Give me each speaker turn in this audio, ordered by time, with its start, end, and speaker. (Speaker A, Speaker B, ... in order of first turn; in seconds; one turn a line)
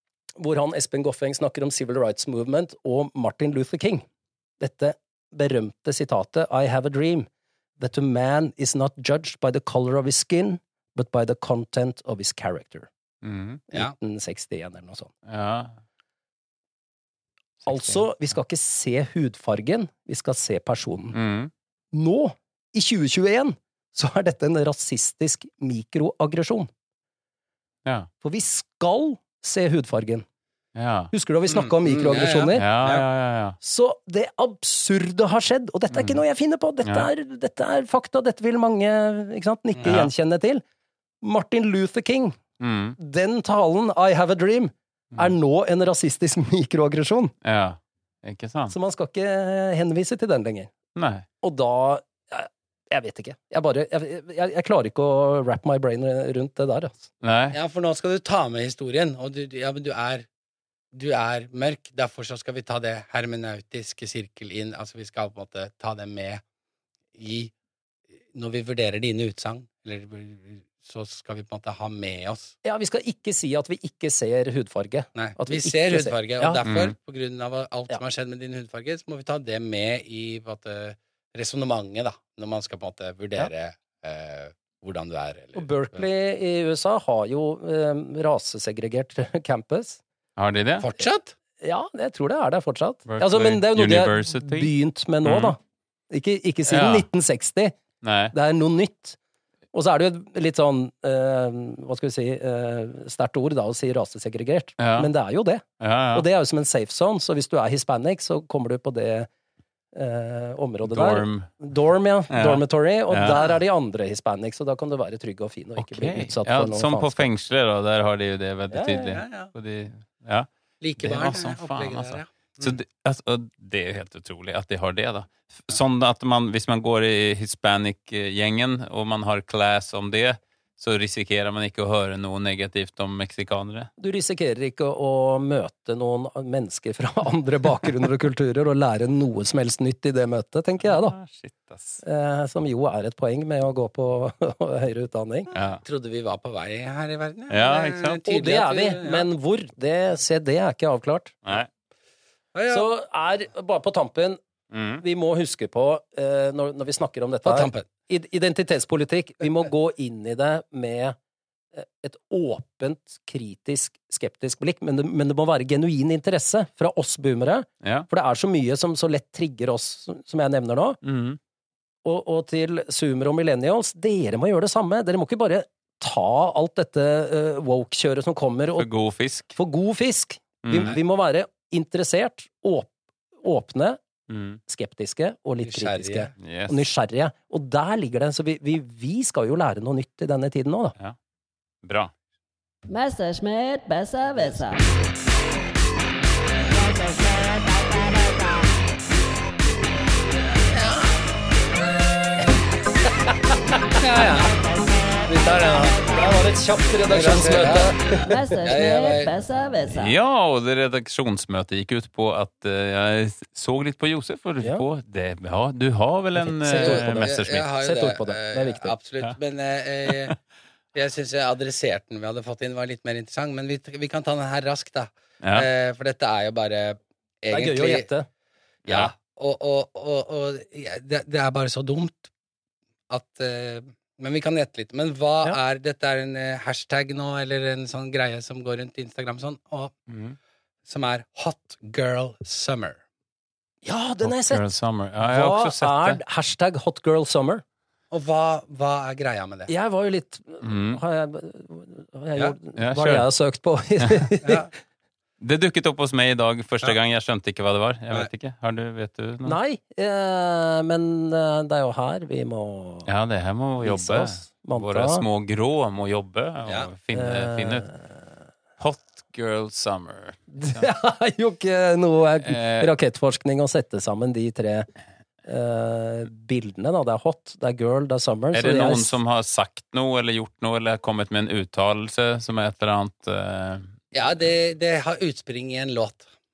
Speaker A: 0.4-4.0
Speaker A: 4.6-7.3
Speaker A: 7.8-12.9
Speaker B: 13.2-13.6
Speaker A: 13.7-15.1
Speaker B: 15.2-15.8
Speaker B: 17.6-18.0
Speaker A: 17.6-21.2
Speaker B: 21.1-21.5
Speaker A: 21.9-26.7
Speaker A: 28.2-30.2
Speaker B: 30.7-31.1
Speaker A: 31.1-32.7
Speaker C: 31.5-33.0
Speaker B: 32.5-33.5
Speaker A: 33.6-40.6
Speaker B: 35.9-36.2
Speaker B: 36.8-37.1
Speaker B: 39.8-40.1
Speaker A: 41.2-42.4
Speaker B: 42.6-43.0
Speaker A: 43.0-47.3
Speaker B: 47.4-48.7
Speaker A: 48.7-50.7
Speaker B: 50.9-51.2
Speaker A: 51.4-57.1
Speaker B: 57.2-57.6
Speaker C: 57.5-60.2
Speaker C: 60.9-66.4
Speaker C: 67.2-67.5
Speaker C: 68.3-72.5
Speaker A: 72.6-76.6
Speaker C: 75.1-86.0
Speaker B: 76.6-76.9
Speaker A: 85.5-90.0
Speaker B: 90.4-90.8
Speaker C: 90.8-91.3
Speaker A: 91.6-95.6
Speaker B: 93.1-94.7
Speaker B: 95.2-95.5
Speaker A: 96.1-97.8
Speaker B: 96.7-97.1
Speaker B: 98.0-98.3
Speaker A: 98.3-99.2
Speaker A: 99.7-109.3
Speaker B: 104.8-105.1
Speaker B: 105.8-106.2
Speaker A: 109.9-117.3
Speaker B: 110.8-111.5
Speaker B: 112.3-113.4
Speaker B: 115.8-133.9
Speaker A: 118.7-119.2
Speaker C: 119.0-119.5
Speaker C: 120.8-122.8
Speaker A: 134.0-141.2
Speaker B: 140.8-142.0
Speaker A: 142.0-145.5
Speaker B: 145.5-145.8
Speaker C: 145.8-149.2
Speaker B: 147.5-148.2
Speaker A: 148.2-151.4
Speaker B: 151.4-151.7
Speaker C: 152.5-152.9
Speaker A: 152.7-154.4
Speaker B: 154.7-155.0
Speaker A: 155.0-161.2
Speaker C: 157.4-157.9
Speaker A: 161.7-171.0
Speaker B: 167.8-168.1
Speaker B: 171.0-171.4
Speaker A: 172.0-178.9
Speaker B: 178.8-179.6
Speaker A: 179.5-182.9
Speaker B: 180.6-181.0
Speaker A: 183.4-184.0
Speaker B: 184.3-184.6
Speaker A: 184.7-190.9
Speaker C: 185.6-186.3
Speaker B: 186.4-186.9
Speaker B: 191.8-192.1
Speaker D: 192.9-194.9
Speaker C: 204.0-204.5
Speaker C: 205.2-206.1
Speaker A: 206.0-208.6
Speaker C: 207.1-207.9
Speaker D: 208.3-210.1
Speaker C: 208.6-209.3
Speaker B: 209.9-217.7
Speaker A: 216.3-218.9
Speaker C: 216.8-220.4
Speaker B: 220.1-220.3
Speaker C: 220.9-228.1
Speaker B: 225.4-225.7
Speaker A: 227.5-228.3
Speaker B: 228.8-229.1
Speaker C: 228.9-232.2
Speaker C: 233.1-239.9
Speaker B: 240.1-240.4
Speaker C: 240.9-243.0
Speaker A: 243.8-247.6
Speaker B: 244.2-246.2
Speaker C: 248.1-249.7
Speaker A: 249.7-254.7
Speaker B: 250.6-251.0
Speaker B: 252.8-253.3
Speaker B: 255.4-259.6
Speaker A: 259.4-263.1
Speaker B: 263.1-267.9
Speaker A: 263.8-265.2
Speaker A: 267.1-268.1
Speaker B: 268.8-270.9
Speaker A: 270.5-274.9
Speaker B: 272.4-272.9
Speaker A: 275.4-279.1
Speaker B: 278.5-283.9
Speaker C: 284.1-286.3